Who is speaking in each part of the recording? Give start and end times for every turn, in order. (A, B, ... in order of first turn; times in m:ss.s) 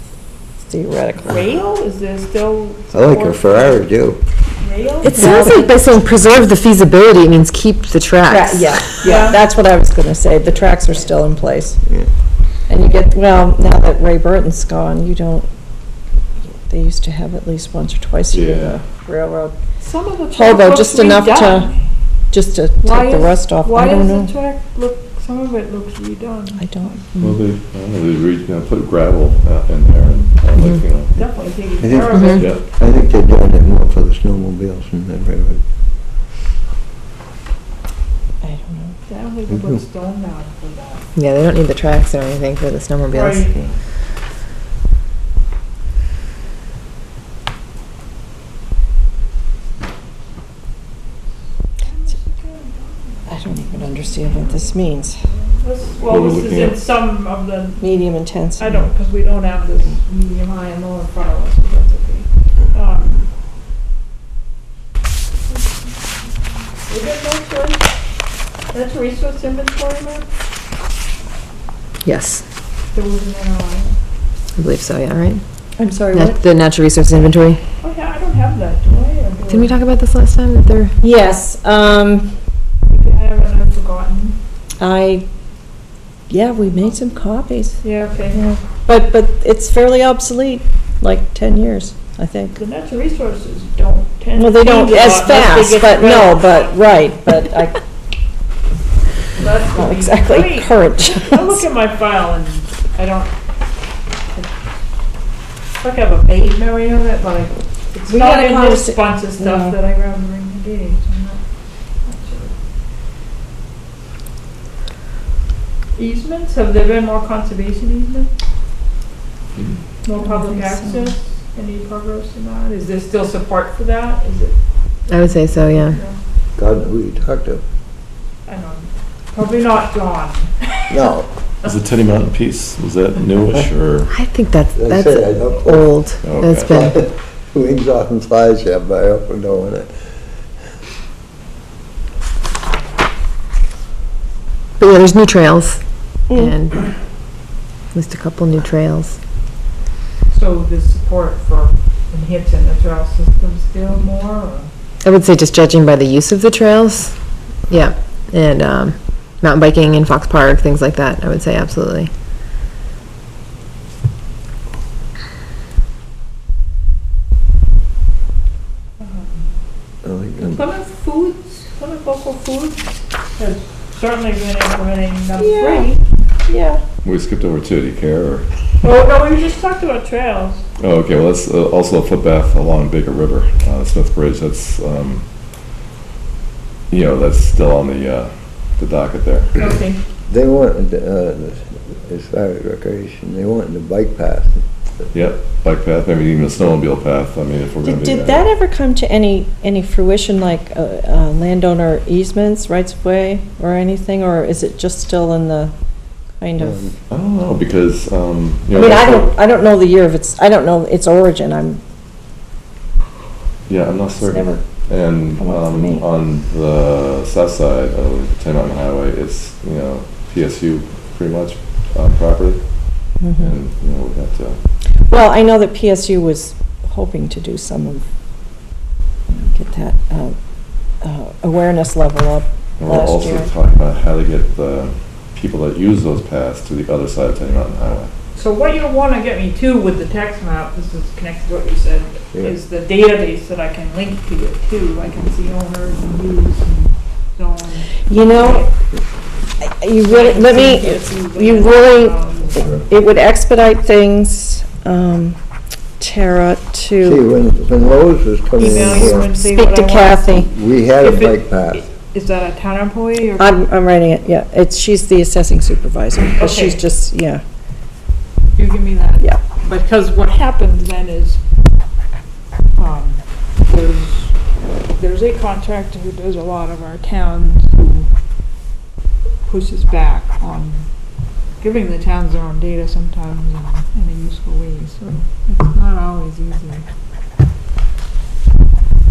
0:00.7-0:01.4 A
0:01.2-0:03.8 B
0:02.9-0:04.2 C
0:04.6-0:05.4 B
0:05.0-0:05.7 A
0:05.1-0:08.9 D
0:08.3-0:11.8 A
0:09.0-0:09.4 B
0:12.7-0:15.5 A
0:16.7-0:19.6 A
0:18.3-0:18.8 E
0:19.8-0:21.8 B
0:20.3-0:21.7 A
0:22.3-0:24.3 A
0:22.8-0:27.0 B
0:26.6-0:27.0 A
0:27.2-0:31.1 E
0:31.1-0:32.6 B
0:31.8-0:35.6 C
0:32.1-0:32.4 D
0:32.4-0:32.6 E
0:38.4-0:39.0 A
0:39.1-0:41.0 B
0:39.5-0:39.7 C
0:41.2-0:43.7 D
0:43.1-0:43.7 B
0:51.8-0:54.7 B
0:53.3-0:55.2 A
0:55.2-0:57.8 B
0:56.0-0:56.8 E
0:57.8-0:58.8 A
0:58.6-1:03.3 B
1:05.5-1:06.0 B
1:06.8-1:07.8 B
1:08.7-1:10.3 B
1:12.0-1:12.4 D
1:12.9-1:13.9 B
1:14.6-1:15.4 D
1:15.8-1:16.4 A
1:16.1-1:17.6 D
1:17.8-1:19.8 B
1:19.5-1:21.0 D
1:21.0-1:22.3 A
1:22.9-1:24.4 B
1:24.8-1:25.3 A
1:26.3-1:32.6 A
1:27.8-1:28.4 B
1:32.6-1:37.1 B
1:34.4-1:37.8 A
1:39.3-1:43.3 B
1:39.7-1:41.6 A
1:45.8-1:51.4 B
1:48.1-1:49.8 A
1:52.0-1:52.5 B
1:56.0-1:58.3 B
2:00.0-2:04.6 B
2:00.2-2:01.1 A
2:05.1-2:06.0 D
2:05.2-2:06.2 B
2:06.6-2:07.6 C
2:08.5-2:11.1 B
2:10.9-2:11.3 C
2:11.6-2:14.1 E
2:14.1-2:17.0 D
2:14.8-2:16.0 C
2:16.2-2:16.7 E
2:16.6-2:19.9 C
2:24.8-2:26.8 D
2:27.9-2:29.2 D
2:30.3-2:34.7 B
2:35.0-2:37.1 D
2:37.7-2:42.1 D
2:49.0-2:49.3 B
2:50.0-2:50.6 C
2:50.4-2:56.0 B
2:55.4-2:55.9 A
2:56.5-2:56.8 A
2:57.0-2:58.5 E
2:58.8-3:00.6 B
3:00.8-3:05.2 E
3:06.9-3:09.6 E
3:09.6-3:10.0 B
3:10.3-3:14.6 C
3:15.1-3:18.5 E
3:17.8-3:25.7 A
3:26.4-3:26.9 A
3:26.6-3:27.0 C
3:27.1-3:29.3 E
3:28.7-3:31.8 A
3:33.7-3:42.6 E
3:34.2-3:34.6 A
3:35.4-3:36.0 A
3:43.2-3:43.6 A
3:43.4-3:44.6 E
3:45.1-3:48.0 A
3:49.3-3:50.4 A
3:51.0-3:53.5 A
3:52.8-3:58.1 E
3:58.3-4:08.7 B
4:08.1-4:08.7 A
4:09.6-4:15.4 A
4:10.0-4:12.8 B
4:16.0-4:17.2 A
4:17.0-4:19.3 C
4:18.6-4:20.4 B
4:18.9-4:20.5 A
4:20.4-4:21.9 C
4:21.0-4:23.6 B
4:23.4-4:27.4 A
4:26.4-4:26.8 B
4:28.6-4:31.4 B
4:32.8-4:34.3 B
4:35.0-4:38.1 B
4:39.4-4:40.9 B
4:41.6-4:46.8 B